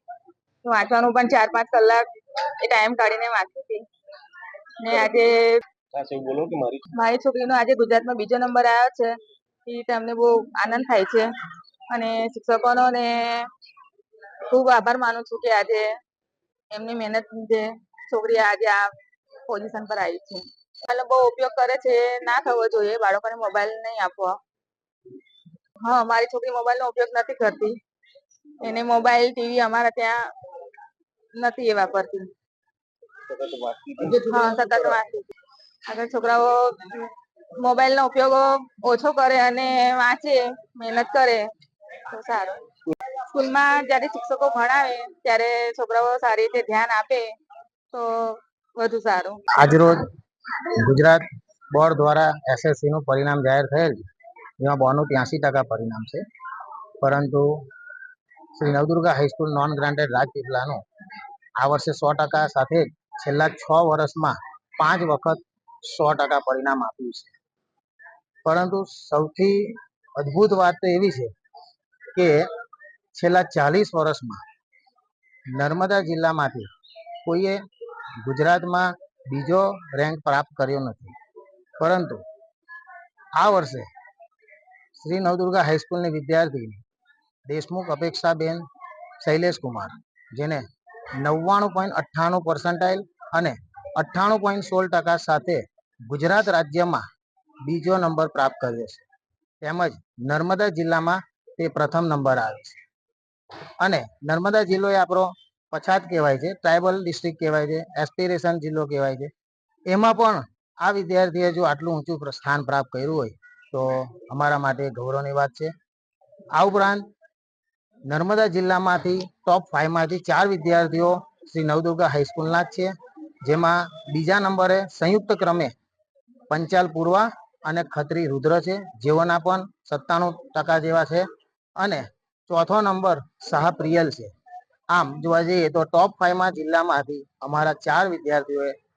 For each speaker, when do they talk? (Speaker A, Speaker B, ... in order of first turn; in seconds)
Speaker A: 0.6-2.0, 2.6-3.9, 4.8-5.6, 7.0-9.1, 9.7-11.3, 11.9-13.2, 14.5-15.9, 16.7-18.9, 19.5-24.4, 25.8-27.8, 28.6-30.2, 31.4-32.3, 34.3-35.3, 35.9-37.1, 37.6-41.5, 42.1-42.6, 43.3-47.3, 47.9-49.4
Speaker B: 5.9-6.8, 33.3-35.0
Speaker C: 49.5-50.0, 50.8-54.0, 54.6-56.2, 57.0-57.5, 58.6-60.8, 61.6-67.3, 68.5-71.3, 72.1-72.4, 73.1-74.4, 75.5-76.7, 77.2-77.6, 78.2-81.2, 81.8-82.2, 83.4-83.9, 85.0-86.8, 87.5-88.6, 89.2-90.6, 91.2-97.0, 97.6-99.0, 99.6-102.8, 103.8-109.3, 109.9-115.7, 116.5-117.1, 118.1-122.9, 123.4-125.7, 126.5-131.3, 131.8-134.3, 134.9-138.8